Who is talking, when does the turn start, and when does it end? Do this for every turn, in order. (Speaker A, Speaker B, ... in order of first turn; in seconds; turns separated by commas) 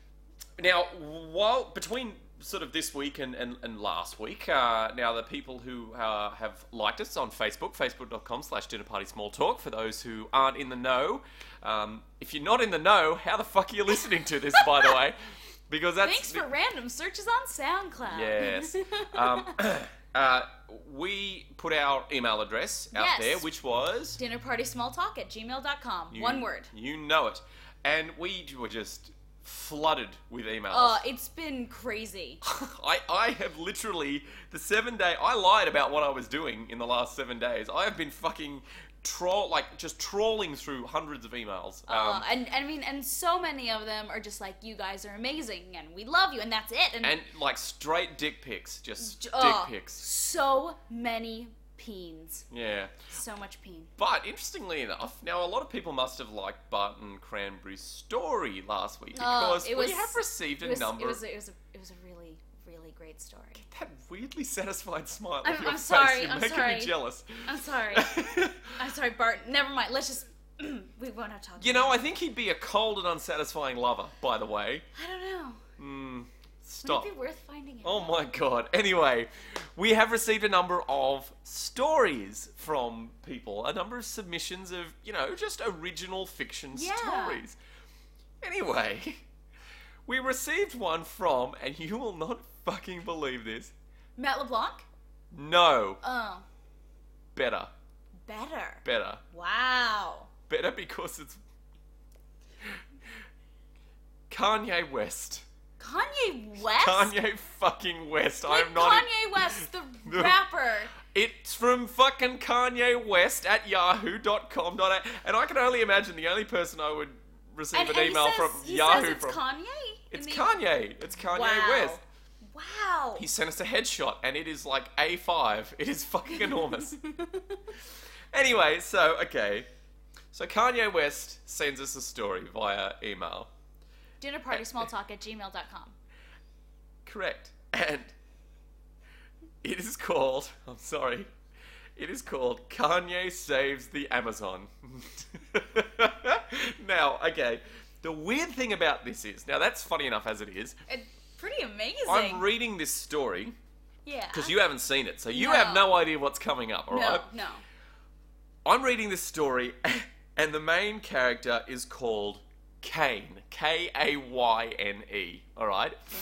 Speaker A: 0.6-16.4, Speaker B: 14.6-14.9, Speaker B: 16.0-19.5, Speaker A: 18.1-24.2, Speaker B: 22.9-23.4, Speaker B: 24.2-26.7, Speaker A: 26.1-31.0, Speaker B: 30.7-32.4, Speaker A: 32.4-42.3, Speaker B: 41.9-47.2, Speaker A: 47.0-50.0, Speaker B: 49.0-52.5, Speaker A: 52.5-53.0, Speaker B: 53.1-53.9, Speaker A: 54.0-61.2, Speaker B: 59.1-63.6, Speaker A: 63.7-68.7, Speaker B: 65.4-72.0, Speaker A: 71.6-74.9, Speaker B: 75.0-75.6, Speaker A: 75.8-77.1, Speaker B: 76.8-78.2, Speaker A: 77.8-87.6, Speaker B: 86.7-87.4, Speaker A: 88.4-89.2, Speaker A: 90.1-93.7, Speaker B: 94.2-94.9, Speaker A: 95.3-96.0, Speaker B: 96.0-96.5, Speaker A: 97.3-97.7, Speaker B: 98.3-100.3, Speaker A: 98.8-99.2, Speaker A: 100.5-101.4, Speaker A: 104.3-105.5, Speaker B: 105.8-107.1, Speaker A: 106.7-110.4, Speaker B: 108.5-110.9, Speaker A: 111.0-119.4, Speaker B: 117.7-120.5, Speaker A: 120.1-122.0, Speaker B: 121.3-123.2, Speaker A: 123.2-127.0, Speaker B: 126.3-127.6, Speaker A: 128.3-129.7, Speaker A: 130.3-133.5, Speaker B: 134.2-135.9, Speaker A: 134.5-134.8, Speaker A: 137.1-138.1, Speaker A: 139.6-141.3, Speaker A: 142.0-150.8, Speaker B: 150.9-152.4, Speaker A: 152.1-153.5, Speaker B: 154.1-154.5, Speaker A: 154.3-157.3, Speaker B: 155.3-155.9, Speaker B: 156.9-157.6, Speaker A: 158.7-166.0